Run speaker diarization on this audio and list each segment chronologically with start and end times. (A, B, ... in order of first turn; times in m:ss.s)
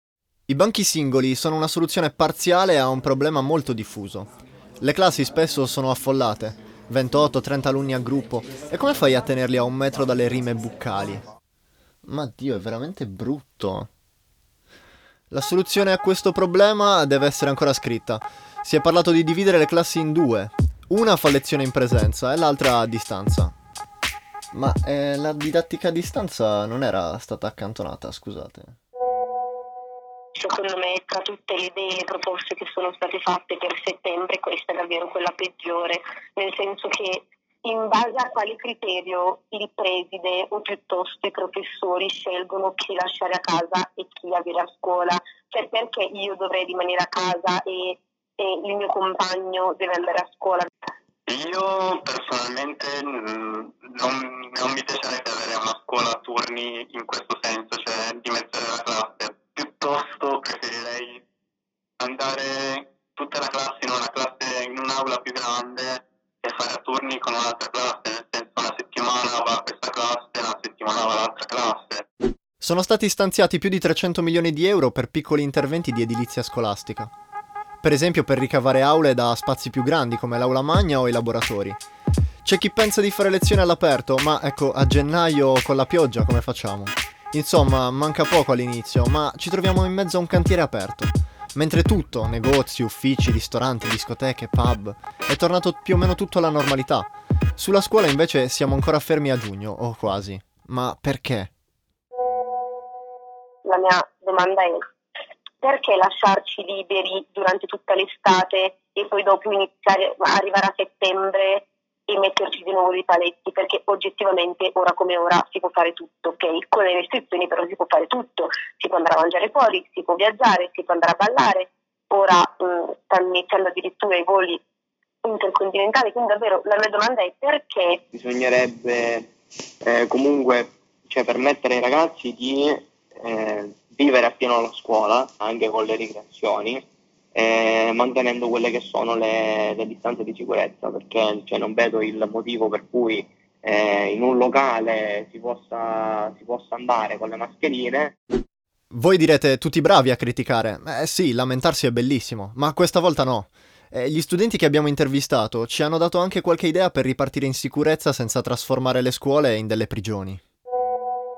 0:00.5-0:11.2 A
0:12.0-0:13.9 A
0:15.3-0:23.5 A
0:24.5-0:28.8 A
0:30.4-0:50.7 B
0:51.3-1:01.2 C
1:02.0-1:12.0 C
1:12.6-1:17.1 A
1:17.8-1:21.8 A
1:22.4-1:41.5 A
1:43.6-1:44.8 B
1:45.6-2:04.6 B
2:05.2-2:08.0 B
2:08.1-2:09.3 D
2:09.8-2:28.1 D
2:28.9-2:40.4 A